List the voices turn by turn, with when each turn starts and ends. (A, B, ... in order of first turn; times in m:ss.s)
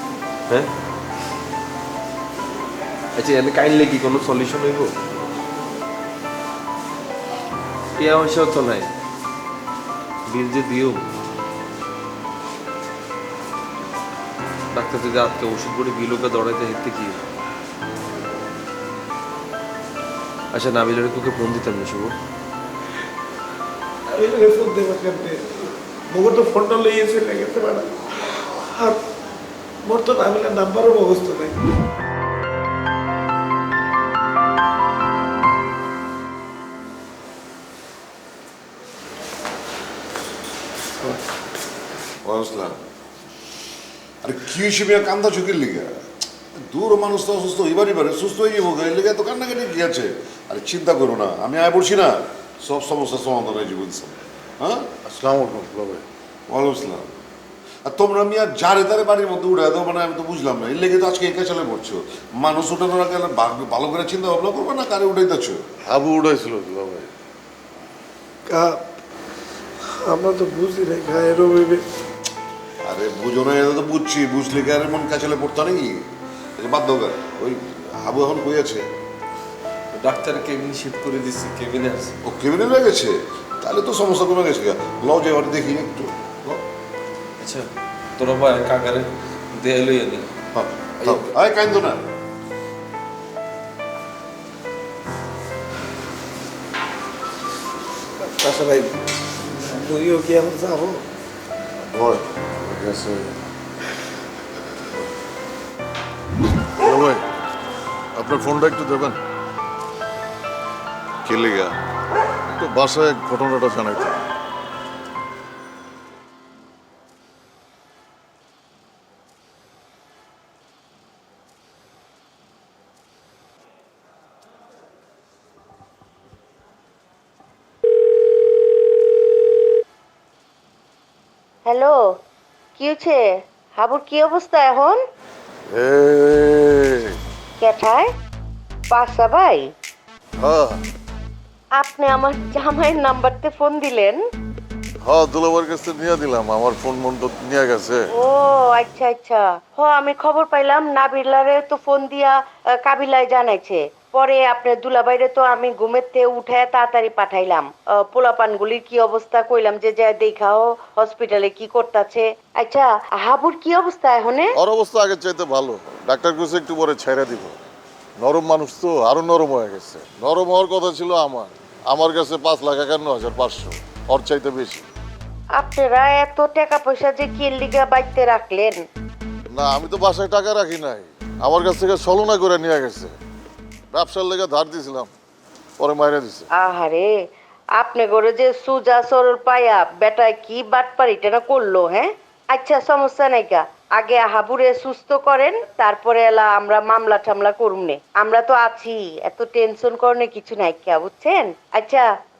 0:03.2-0:04.9 A
0:08.0-0:08.9 A
0:10.3-0:11.1 A
0:14.7-0:17.2 A
0:20.5-0:22.1 A
0:24.1-0:25.4 B
0:26.1-0:29.0 B
0:29.8-0:31.6 B
0:42.2-0:42.7 C
0:44.2-0:45.9 C
0:46.7-0:54.8 C
0:55.0-0:56.0 D
0:56.5-0:57.1 C
0:57.8-1:05.6 C
1:05.9-1:07.1 D
1:08.5-1:08.8 B
1:09.9-1:11.8 B
1:12.8-1:16.0 C
1:16.6-1:18.8 C
1:19.9-1:22.2 A
1:22.2-1:26.6 C
1:27.4-1:30.3 A
1:30.5-1:32.0 C
1:31.0-1:31.3 A
1:38.2-1:41.0 B
1:41.8-1:43.3 D
1:46.8-1:47.2 D
1:48.2-1:49.2 D
1:51.2-1:51.7 C
1:52.6-1:54.2 D
2:11.6-2:12.0 E
2:12.8-2:15.0 E
2:15.7-2:17.2 D
2:17.6-2:18.1 E
2:18.9-2:19.7 E
2:20.4-2:20.8 D
2:21.7-2:24.2 E
2:25.0-2:28.1 D
2:28.1-2:44.5 E
2:44.6-2:47.5 D
2:48.2-2:54.9 D
2:55.6-2:58.8 E
2:59.5-3:03.1 D
3:03.9-3:05.1 D
3:05.8-3:06.5 D
3:06.6-3:07.1 E
3:07.7-3:22.0 E